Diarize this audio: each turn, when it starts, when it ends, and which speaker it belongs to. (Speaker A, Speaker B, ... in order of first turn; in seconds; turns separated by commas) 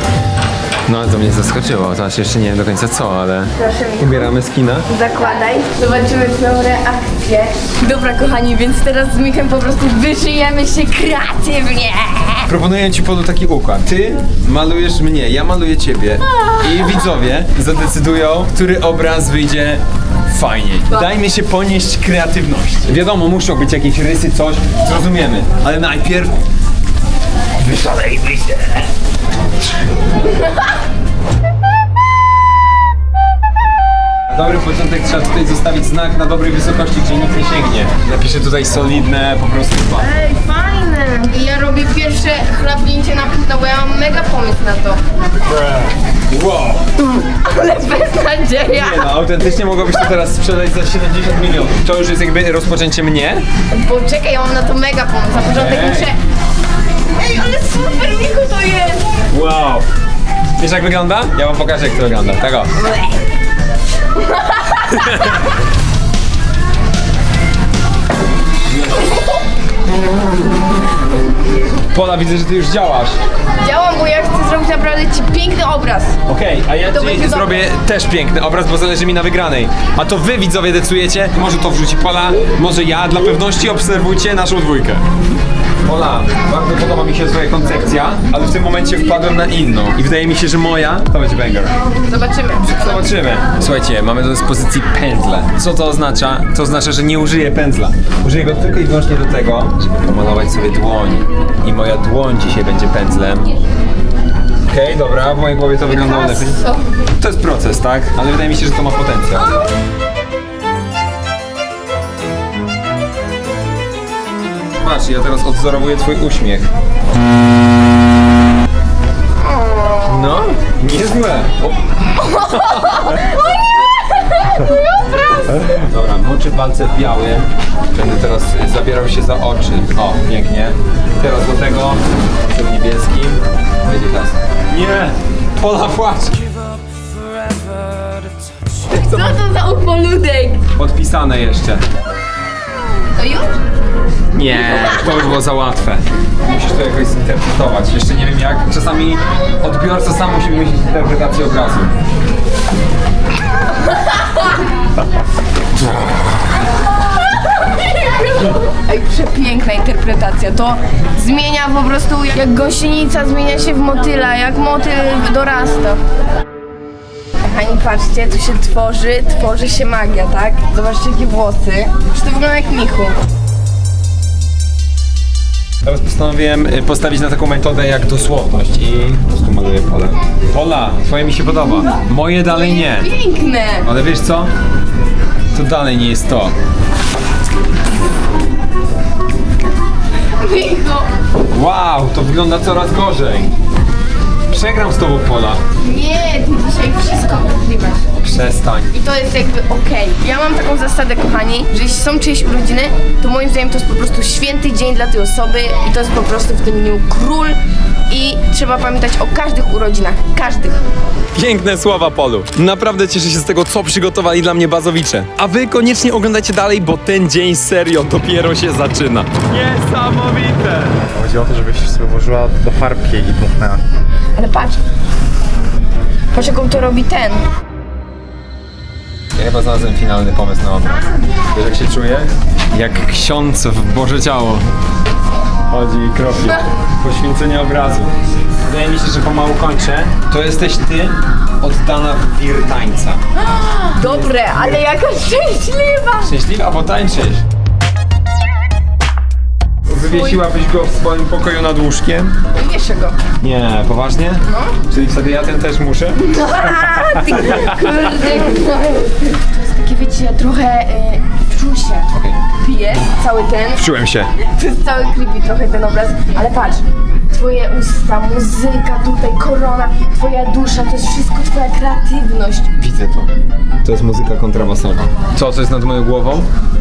Speaker A: 0.8-4.9, Speaker B: 3.6-4.3, Speaker B: 4.9-12.5, Speaker A: 12.5-26.3, Speaker A: 27.6-28.9, Speaker A: 34.3-40.1, Speaker B: 39.9-45.0, Speaker A: 45.4-46.9, Speaker B: 47.0-49.2, Speaker A: 48.7-53.4, Speaker B: 49.9-50.1, Speaker B: 53.7-56.2, Speaker A: 55.5-56.1, Speaker B: 57.2-59.1, Speaker A: 59.3-59.9, Speaker A: 60.6-62.7, Speaker B: 62.8-63.1, Speaker B: 64.2-64.9, Speaker A: 65.0-65.4, Speaker A: 68.7-69.0, Speaker A: 69.9-70.8, Speaker A: 71.9-73.2, Speaker B: 73.6-76.2, Speaker A: 76.3-85.0, Speaker B: 76.9-77.7, Speaker A: 85.8-91.8, Speaker B: 91.8-93.0, Speaker A: 92.6-103.5, Speaker A: 104.7-106.6, Speaker B: 105.8-106.8, Speaker A: 107.2-109.6, Speaker A: 114.8-116.7, Speaker B: 119.5-120.3, Speaker A: 120.1-121.8, Speaker B: 122.2-123.5, Speaker B: 124.3-124.8, Speaker A: 125.8-136.5, Speaker B: 138.9-140.6, Speaker A: 140.8-141.8, Speaker B: 143.1-143.5, Speaker A: 144.3-151.9, Speaker B: 158.5-166.0, Speaker B: 167.4-173.1, Speaker A: 175.8-183.1, Speaker B: 182.4-183.8, Speaker A: 183.8-184.5, Speaker A: 185.5-186.6, Speaker B: 190.4-191.1, Speaker A: 191.5-193.5, Speaker A: 194.5-195.6, Speaker B: 195.8-198.1, Speaker A: 198.2-198.9, Speaker B: 198.9-210.8, Speaker A: 211.3-221.1, Speaker C: 221.2-223.8, Speaker A: 223.0-223.4, Speaker B: 224.3-224.8, Speaker B: 226.3-227.4, Speaker A: 229.3-234.7, Speaker A: 235.7-238.1, Speaker A: 238.6-243.2, Speaker B: 243.3-246.3, Speaker A: 244.1-244.8, Speaker A: 246.2-247.4, Speaker A: 249.9-252.3, Speaker B: 250.0-250.4, Speaker B: 252.6-253.2, Speaker A: 253.4-256.2, Speaker B: 254.5-254.8, Speaker B: 256.2-263.9, Speaker A: 257.5-257.9, Speaker A: 262.1-263.0, Speaker A: 263.8-264.3, Speaker B: 264.4-272.7, Speaker A: 272.8-273.3, Speaker A: 273.8-276.5